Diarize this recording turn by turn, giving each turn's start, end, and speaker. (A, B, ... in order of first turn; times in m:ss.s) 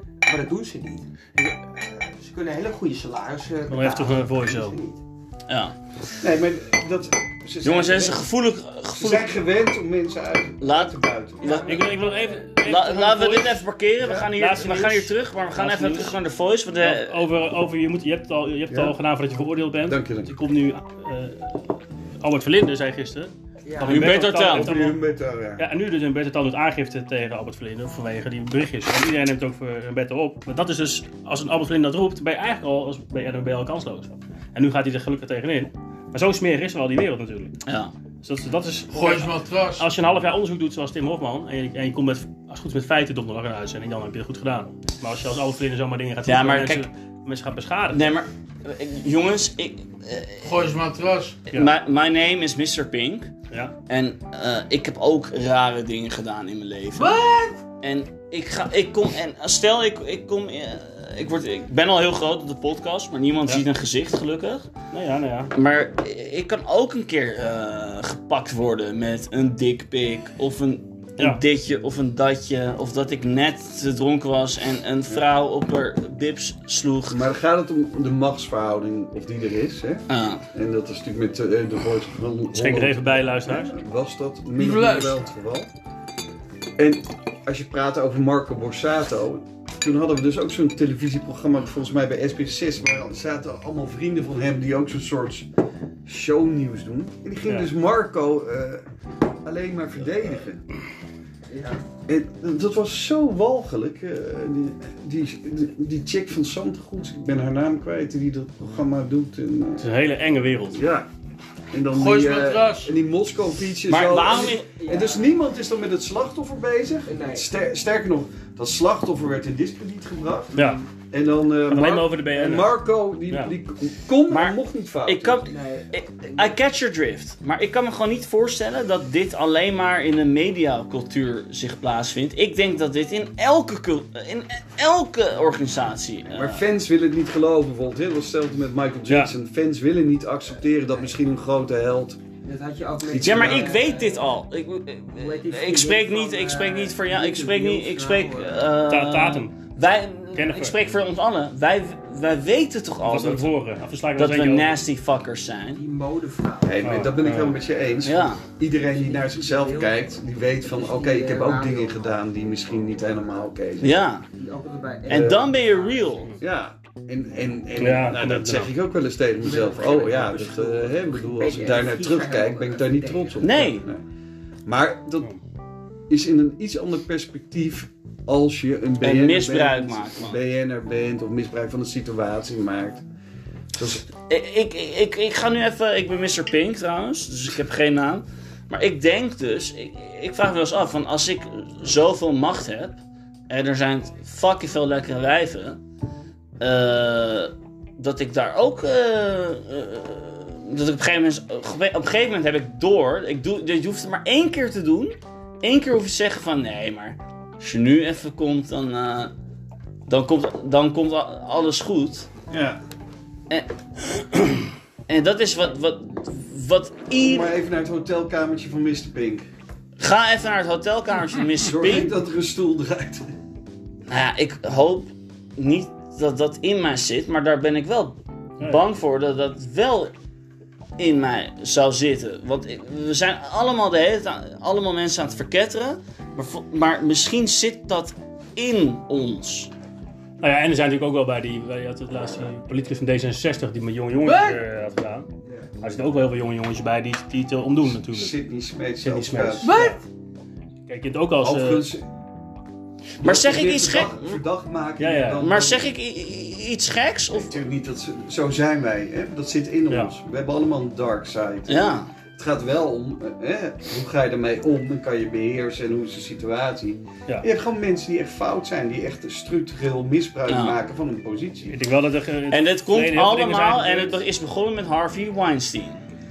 0:00.2-0:05.0 A
0:03.7-0:04.7 B
0:05.5-0:05.8 C
0:06.2-0:08.2 D
0:07.6-0:09.3 C
0:08.9-0:11.7 D
0:10.6-0:11.8 C
0:11.4-0:11.7 A
0:11.5-0:13.6 B
0:12.6-0:17.2 C
0:14.0-0:14.3 D
0:14.3-0:16.2 B
0:16.8-0:25.0 B
0:18.7-0:18.9 D
0:19.8-0:20.3 D
0:23.6-0:24.1 A
0:23.8-0:24.7 C
0:24.1-0:25.6 D
0:25.6-0:37.6 B
0:37.6-0:37.9 C
0:38.2-0:48.2 B
0:38.9-0:39.8 E
0:46.2-0:46.9 C
0:47.9-0:50.5 C
0:50.4-0:51.4 E
0:51.5-0:53.3 C
0:53.9-0:57.2 C
0:56.9-0:57.6 E
0:57.8-1:04.7 C
1:04.9-1:05.5 B
1:05.5-1:17.2 C
1:17.1-1:25.7 D
1:20.1-1:20.4 C
1:22.5-1:23.7 B
1:24.6-1:25.2 E
1:26.8-1:35.5 D
1:36.0-1:38.9 D
1:39.4-1:40.6 D
1:41.5-1:41.8 A
1:42.1-1:49.9 D
1:49.8-1:50.8 B
1:50.7-1:51.1 D
1:51.7-2:05.5 D
1:51.9-1:53.0 E
1:53.9-1:54.7 C
1:54.3-1:55.3 A
1:57.0-1:57.5 A
2:00.5-2:00.8 B
2:01.7-2:03.5 B
2:04.3-2:16.6 C
2:05.5-2:06.6 A
2:16.3-2:22.2 D
2:22.4-2:24.4 A
2:23.1-2:23.8 D
2:23.2-2:33.5 C
2:25.1-2:28.8 A
2:28.9-2:29.6 B
2:30.3-2:30.8 B
2:33.0-2:34.8 B
2:34.2-2:35.8 C
2:35.7-2:37.0 A
2:36.6-2:44.0 D
2:36.8-2:37.6 B
2:38.0-2:38.4 C
2:38.8-2:42.2 A
2:42.7-2:43.5 A
2:43.8-2:44.2 C
2:44.3-2:46.4 A
2:45.1-2:46.3 C
2:45.1-2:45.4 D
2:46.4-2:54.0 D
2:47.8-2:48.7 B
2:49.4-2:53.4 A
2:53.4-2:53.8 C
2:54.6-2:55.3 D
2:56.1-3:03.0 D
2:59.0-3:00.4 C
3:03.7-3:04.1 D
3:04.2-3:15.8 C
3:16.6-3:29.3 C
3:30.1-3:32.3 C
3:32.5-3:32.8 D
3:33.5-3:37.5 C
3:37.2-3:39.4 D
3:40.0-3:42.1 C
3:41.6-3:43.2 D
3:44.1-3:50.1 C
3:51.0-3:59.7 C
4:00.4-4:05.3 B
4:04.2-4:04.6 E
4:05.4-4:05.7 A
4:05.8-4:08.3 B
4:07.8-4:09.7 D
4:09.0-4:10.0 B
4:09.6-4:10.0 E
4:10.9-4:11.8 B
4:11.4-4:12.0 D
4:13.2-4:15.9 D
4:13.2-4:14.4 C
4:15.0-4:15.4 B
4:15.4-4:17.6 C
4:17.3-4:31.8 D
4:21.7-4:22.1 C
4:30.5-4:30.8 C
4:31.7-4:34.2 B
4:32.5-4:36.0 C